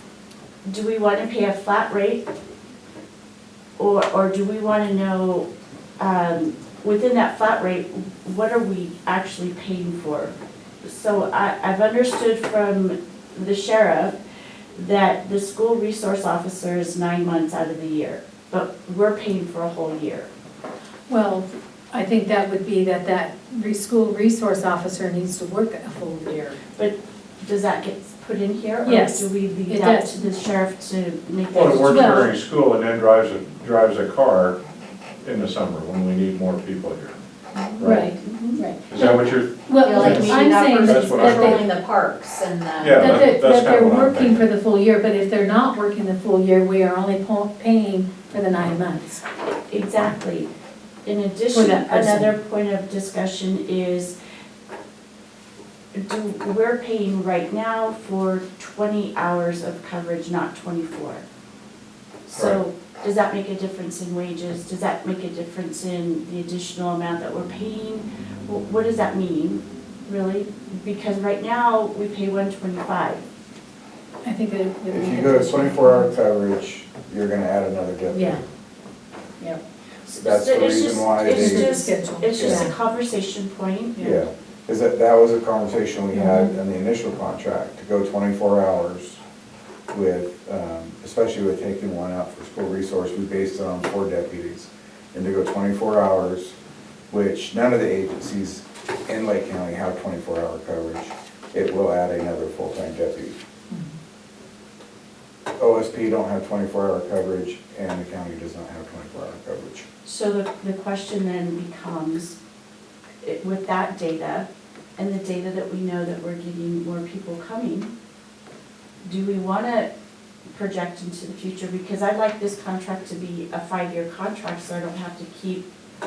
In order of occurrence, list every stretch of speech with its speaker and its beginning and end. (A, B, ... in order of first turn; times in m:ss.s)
0:00.6-0:02.2 A
0:03.8-0:05.5 A
0:06.0-0:14.2 A
0:14.7-0:20.3 A
0:21.1-0:26.6 B
0:26.8-0:32.3 A
0:28.8-0:30.2 B
0:31.5-0:34.6 C
0:31.9-0:32.3 B
0:35.2-0:37.2 C
0:37.6-0:38.6 A
0:37.8-0:41.6 B
0:37.8-0:38.1 C
0:38.9-0:41.6 C
0:39.8-0:43.3 D
0:42.8-0:44.4 C
0:42.9-0:49.2 B
0:49.5-0:50.5 A
0:51.0-0:54.2 A
0:51.5-0:52.3 B
0:56.0-1:01.2 A
1:02.3-1:13.2 A
1:14.2-1:16.1 B
1:14.9-1:18.4 E
1:18.1-1:18.4 B
1:20.0-1:24.0 A
1:20.2-1:21.8 E
1:21.2-1:22.7 B
1:22.3-1:22.7 E
1:24.0-1:29.2 E
1:26.1-1:26.5 B
1:29.9-1:36.5 E
1:37.1-1:43.4 E
1:45.6-1:49.8 E
1:50.0-1:52.4 A
1:53.2-1:57.9 A
1:59.0-1:59.9 A
2:00.5-2:05.7 A